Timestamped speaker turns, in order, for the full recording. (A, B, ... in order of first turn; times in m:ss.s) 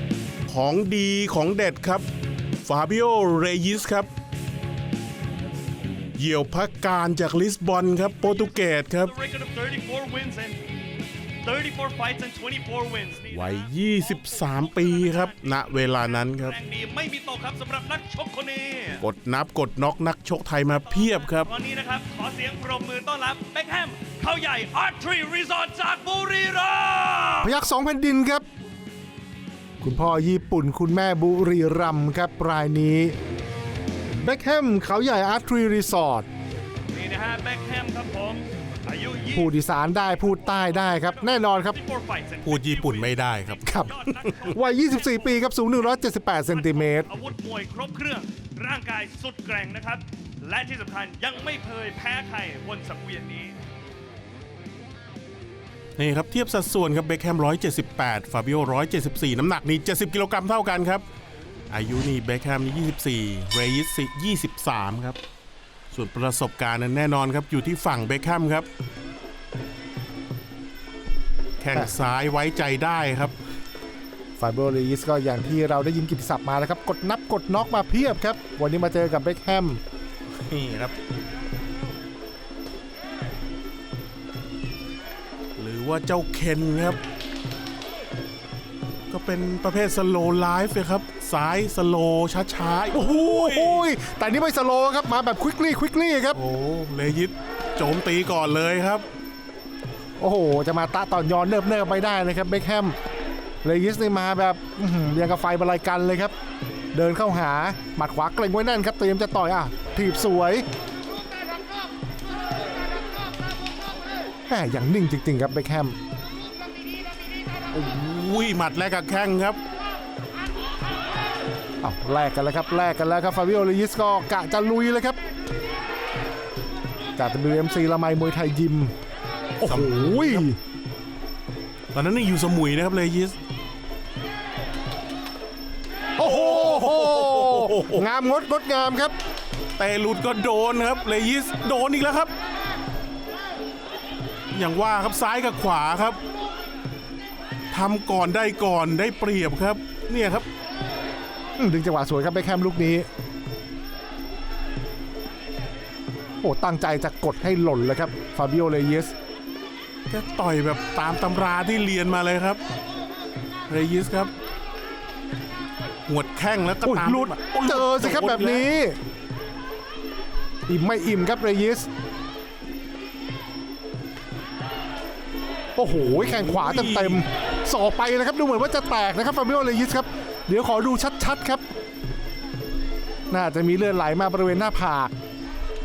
0:00.5-0:02.0 A
0:02.6-0:04.1 A
0:06.2-0:09.1 A
0:08.0-0:10.6 B
0:11.4-0:19.0 B
0:13.3-0:16.5 A
0:19.0-0:21.5 A
0:20.9-0:27.5 B
0:27.4-0:28.4 C
0:29.8-0:33.1 C
0:34.1-0:36.3 C
0:36.9-0:53.6 B
0:39.3-0:41.8 C
0:42.4-0:44.4 A
0:43.7-0:43.9 C
0:44.5-0:47.1 C
0:56.0-1:01.0 A
1:01.7-1:05.2 A
1:05.9-1:08.7 A
1:11.6-1:13.3 A
1:14.4-1:19.8 C
1:20.3-1:20.9 A
1:25.6-1:27.0 A
1:29.1-1:33.9 A
1:32.9-1:36.4 C
1:36.3-1:39.0 A
1:40.2-1:43.0 C
1:43.6-1:46.3 C
1:46.9-1:50.6 C
1:54.5-1:56.0 C
1:57.7-1:59.6 A
2:01.8-2:05.2 C
2:07.2-2:08.9 C
2:09.6-2:10.6 C
2:09.6-2:10.5 A
2:11.9-2:13.4 A
2:16.2-2:19.1 C
2:16.2-2:18.0 A
2:19.8-2:22.3 A
2:24.5-2:26.2 A
2:27.7-2:30.4 A
2:31.6-2:33.1 C
2:36.4-2:39.1 C
2:40.1-2:42.6 A
2:43.7-2:44.3 A
2:46.1-2:48.7 A
2:46.8-2:49.0 C
2:50.7-2:51.9 C
2:55.8-3:01.6 C
2:56.2-2:57.2 A
3:03.3-3:05.1 C